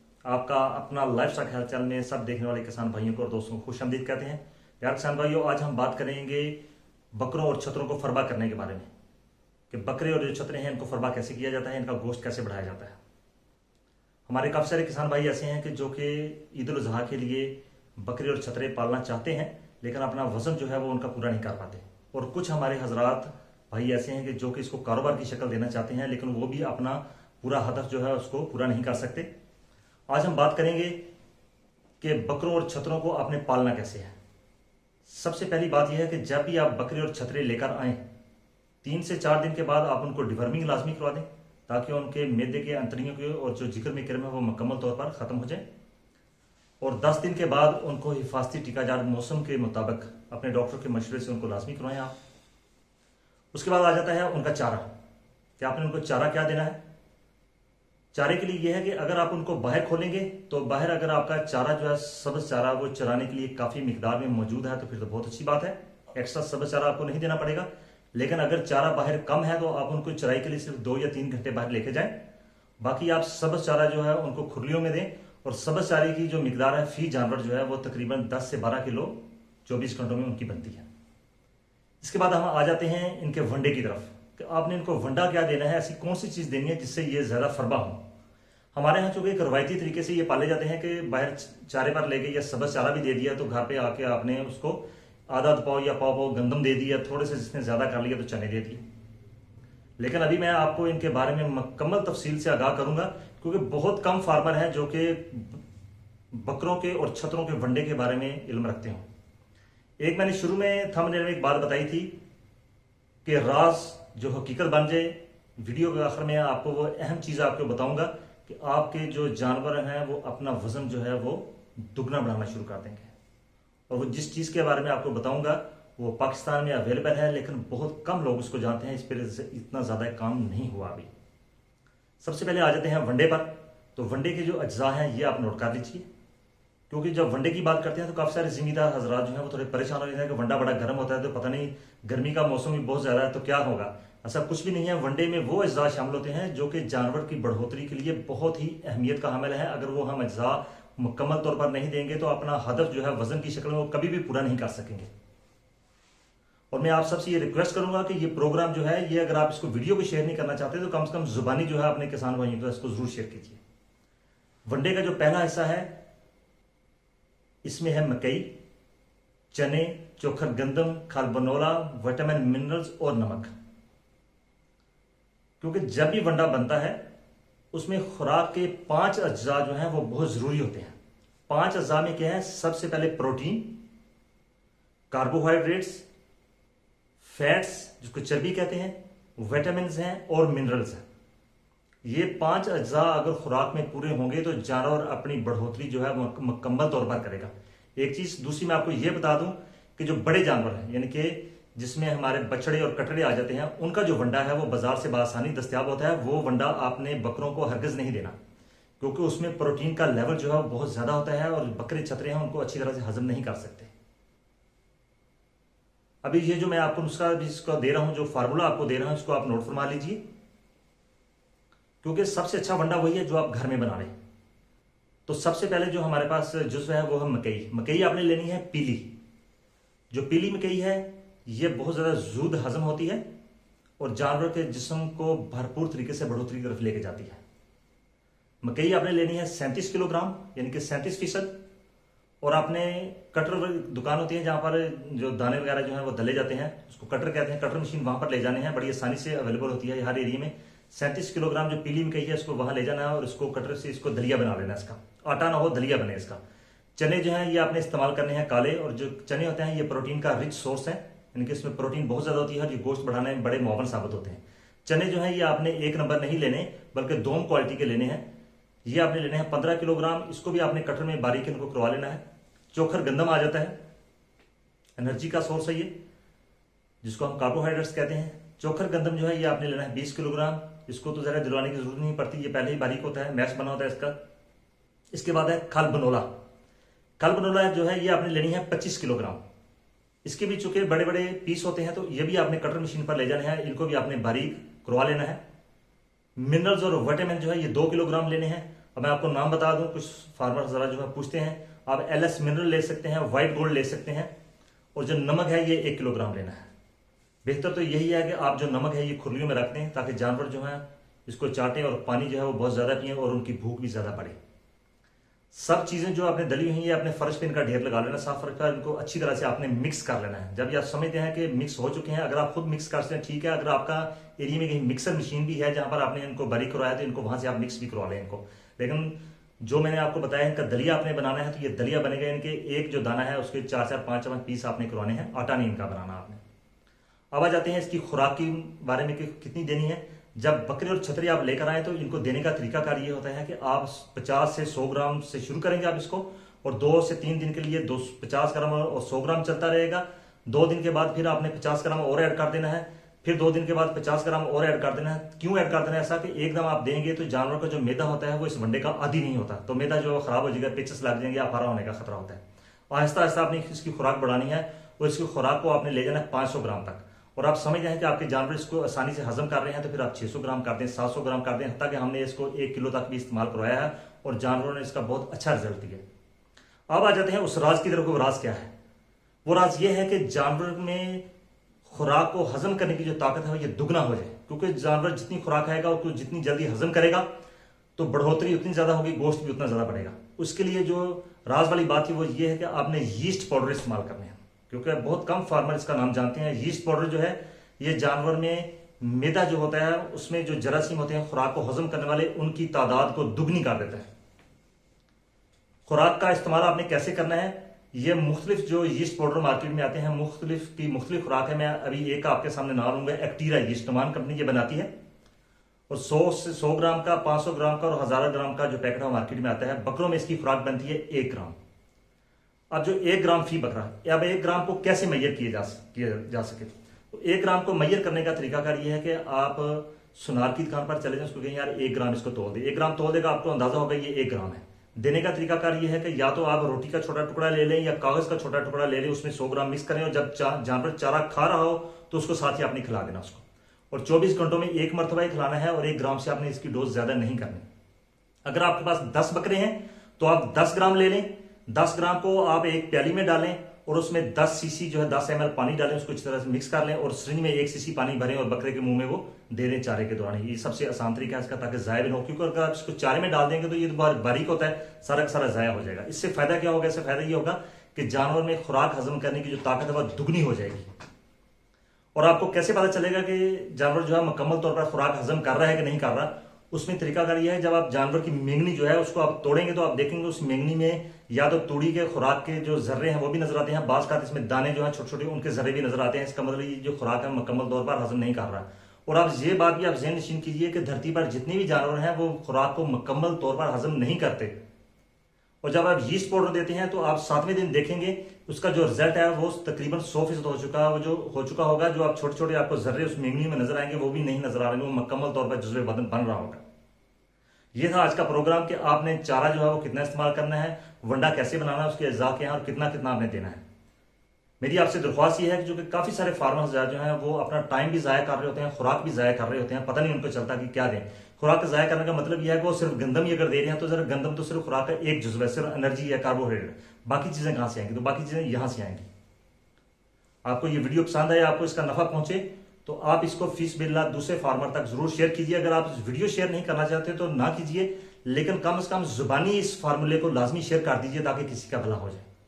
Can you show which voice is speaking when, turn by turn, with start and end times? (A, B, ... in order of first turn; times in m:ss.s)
0:00.2-0:06.6 A
0:07.1-0:08.9 A
0:09.7-0:13.0 A
0:14.3-0:29.3 A
0:30.1-0:31.0 A
0:32.0-0:34.1 A
0:35.0-0:38.0 A
0:38.8-0:45.6 A
0:46.8-0:52.1 A
0:53.5-0:54.9 A
0:55.6-0:56.8 A
0:58.1-1:12.3 A
1:12.8-1:20.8 A
1:22.0-1:28.0 A
1:28.7-1:38.8 A
1:40.0-1:45.6 A
1:46.3-1:49.0 A
1:50.0-1:52.1 A
1:53.2-2:03.1 A
2:03.9-2:11.1 A
2:12.2-2:16.0 A
2:16.9-2:35.1 A
2:36.7-2:43.6 A
2:44.6-2:45.9 A
2:47.6-2:48.6 A
2:49.5-2:53.5 A
2:55.6-2:57.0 A
2:57.7-3:00.9 A
3:01.5-3:03.8 A
3:05.1-3:06.0 A
3:07.2-3:11.0 A
3:12.0-3:28.3 A
3:29.0-3:33.9 A
3:36.2-3:40.2 A
3:42.0-3:44.1 A
3:45.3-3:49.1 A
3:50.1-3:53.2 A
3:54.0-3:57.4 A
3:58.6-4:01.6 A
4:02.4-4:16.4 A
4:17.0-4:28.2 A
4:28.8-4:33.8 A
4:35.0-4:35.9 A
4:37.0-4:44.1 A
4:45.1-4:46.3 A
4:47.2-4:49.4 A
4:50.2-4:55.4 A
4:56.4-5:04.3 A
5:04.9-5:06.6 A
5:07.4-5:14.4 A
5:15.5-5:36.4 A
5:37.3-6:16.0 A
6:16.9-6:18.7 A
6:19.4-6:21.2 A
6:21.9-6:27.3 A
6:28.0-6:44.1 A
6:45.9-6:54.9 A
6:55.9-7:01.6 A
7:02.7-7:27.6 A
7:28.4-7:50.9 A
7:52.1-8:14.6 A
8:15.6-8:26.6 A
8:27.7-8:33.6 A
8:34.6-8:49.0 A
8:50.4-9:02.3 A